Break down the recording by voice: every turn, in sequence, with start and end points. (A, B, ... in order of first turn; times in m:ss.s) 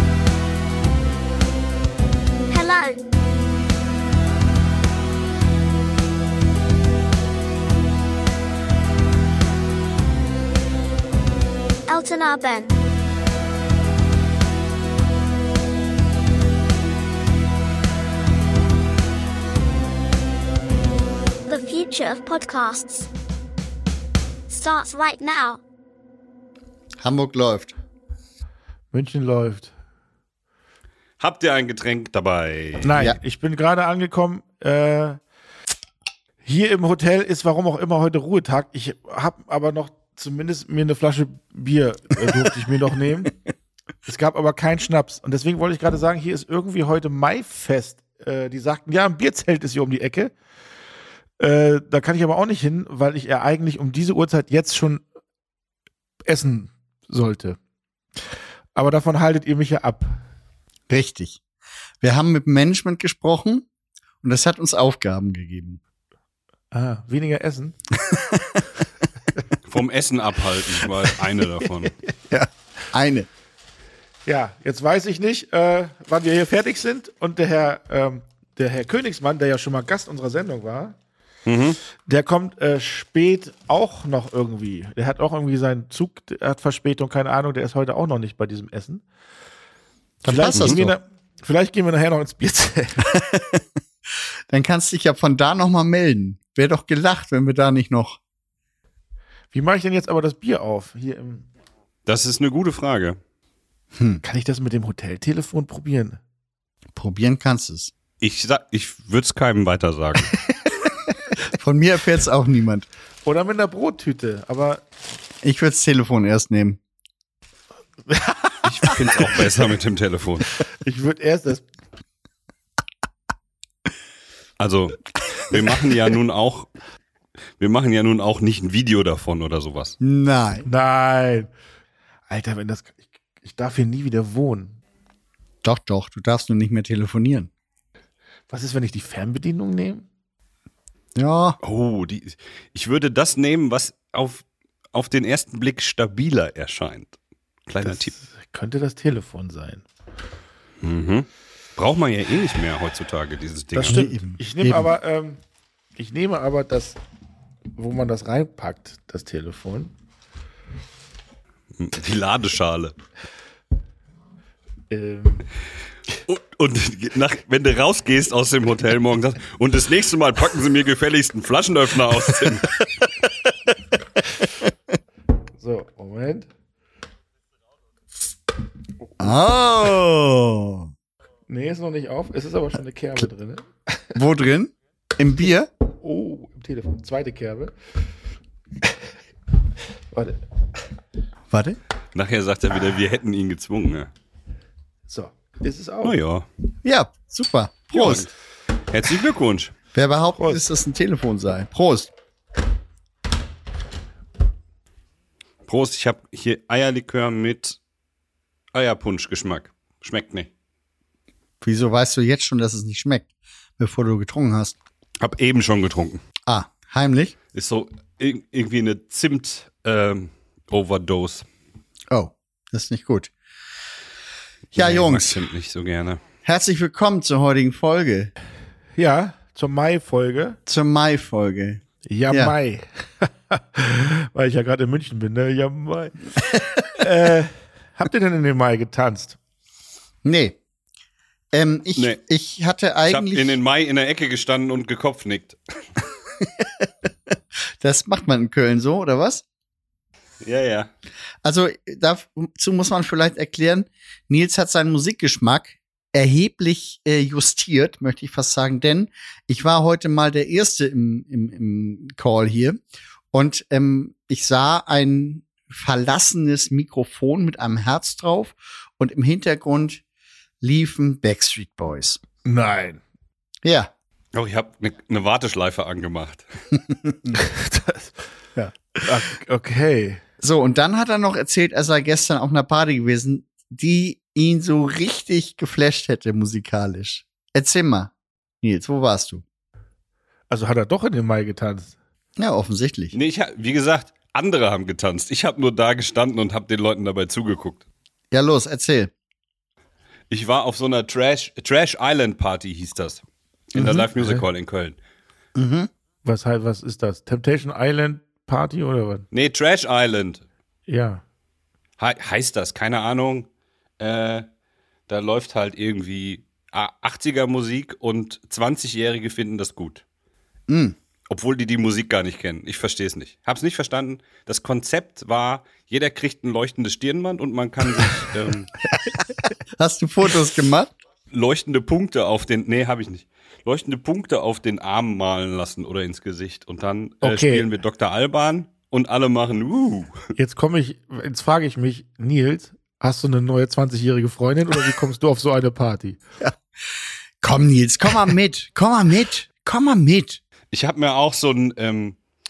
0:02.5-0:03.0 A
0:11.9-0:12.9 A
0:21.4-0:23.1 A
0:24.5-0:25.6 A
0:27.0-0:27.7 B
0:28.9-0:29.7 C
0:31.2-0:32.9 D
0:32.8-0:35.2 C
0:36.4-0:43.3 C
0:44.0-0:50.3 C
0:51.4-0:55.0 C
0:56.3-0:57.6 C
0:58.7-1:00.2 C
1:00.9-1:01.4 B
1:02.0-1:03.6 B
1:04.2-1:05.8 B
1:06.7-1:07.8 C
1:09.6-1:11.9 D
1:12.3-1:13.3 B
1:14.2-1:21.0 C
1:21.4-1:21.8 D
1:22.0-1:29.0 C
1:30.2-1:30.9 B
1:30.2-1:33.1 C
1:33.1-1:33.6 B
1:34.5-1:38.2 B
1:39.5-1:41.4 C
1:42.0-1:43.2 D
1:44.0-1:44.2 B
1:44.2-1:46.2 C
1:46.9-1:47.9 B
1:48.2-1:50.3 D
1:51.5-1:52.8 B
1:53.2-1:54.8 C
1:55.4-1:56.8 B
1:58.1-1:58.9 C
1:58.6-2:00.5 D
2:00.6-2:01.6 C
2:04.6-2:06.7 D
2:07.6-2:10.0 D
2:10.0-2:10.7 B
2:10.6-2:11.5 C
2:12.3-2:14.8 C
2:15.6-2:17.5 B
2:18.5-2:20.0 C
2:21.2-2:21.6 B
2:21.6-2:27.1 D
2:27.7-2:28.1 D
2:27.8-2:29.8 C
2:30.8-2:34.1 D
2:33.7-2:35.4 C
2:33.9-2:34.9 B
2:36.0-2:37.0 C
2:37.8-2:39.9 C
2:41.8-2:42.9 D
2:44.9-2:45.5 C
2:46.3-2:52.7 D
2:55.6-2:56.5 C
2:59.2-3:00.9 B
3:01.5-3:04.2 C
3:04.1-3:05.7 B
3:06.0-3:07.7 C
3:10.1-3:10.4 C
3:11.5-3:11.8 B
3:12.1-3:14.1 D
3:15.1-3:16.1 C
3:16.0-3:16.4 D
3:16.8-3:18.3 B
3:17.9-3:18.3 D
3:18.9-3:19.7 D
3:19.9-3:22.1 B
3:20.4-3:20.6 C
3:25.6-3:27.8 D
3:28.7-3:30.5 D
3:31.6-3:34.7 B
3:35.2-3:36.2 D
3:36.5-3:37.3 B
3:37.5-3:41.4 D
3:42.1-3:43.3 B
3:44.7-3:46.2 D
3:44.7-3:45.4 B
3:46.4-3:48.3 B
3:49.0-3:50.6 C
3:50.7-3:52.5 B
3:52.0-3:59.4 C
4:00.2-4:00.6 B
4:01.5-4:03.6 B
4:03.1-4:05.6 D
4:06.4-4:06.9 B
4:07.8-4:09.4 B
4:10.4-4:10.9 D
4:11.4-4:22.8 B
4:23.3-4:30.0 B
4:30.6-4:32.2 B
4:32.4-4:33.0 C
4:33.6-4:33.9 B
4:34.3-4:36.4 D
4:36.9-4:37.4 B
4:37.4-4:38.1 C
4:39.0-4:40.2 C
4:40.4-4:49.4 B
4:50.5-4:51.9 C
4:52.4-4:53.1 B
4:53.1-4:57.8 D
4:58.3-4:59.1 B
5:00.3-5:05.0 D
5:03.8-5:04.0 B
5:05.6-5:05.9 B
5:06.2-5:09.2 C
5:09.3-5:10.4 D
5:10.9-5:11.2 C
5:12.0-5:13.5 D
5:14.0-5:14.4 D
5:15.1-5:20.0 D
5:20.7-5:21.0 B
5:21.3-5:28.7 D
5:29.8-5:30.9 B
5:31.3-5:40.2 D
5:37.2-5:37.7 C
5:40.4-5:46.2 C
5:47.4-5:50.4 B
5:50.7-5:52.2 D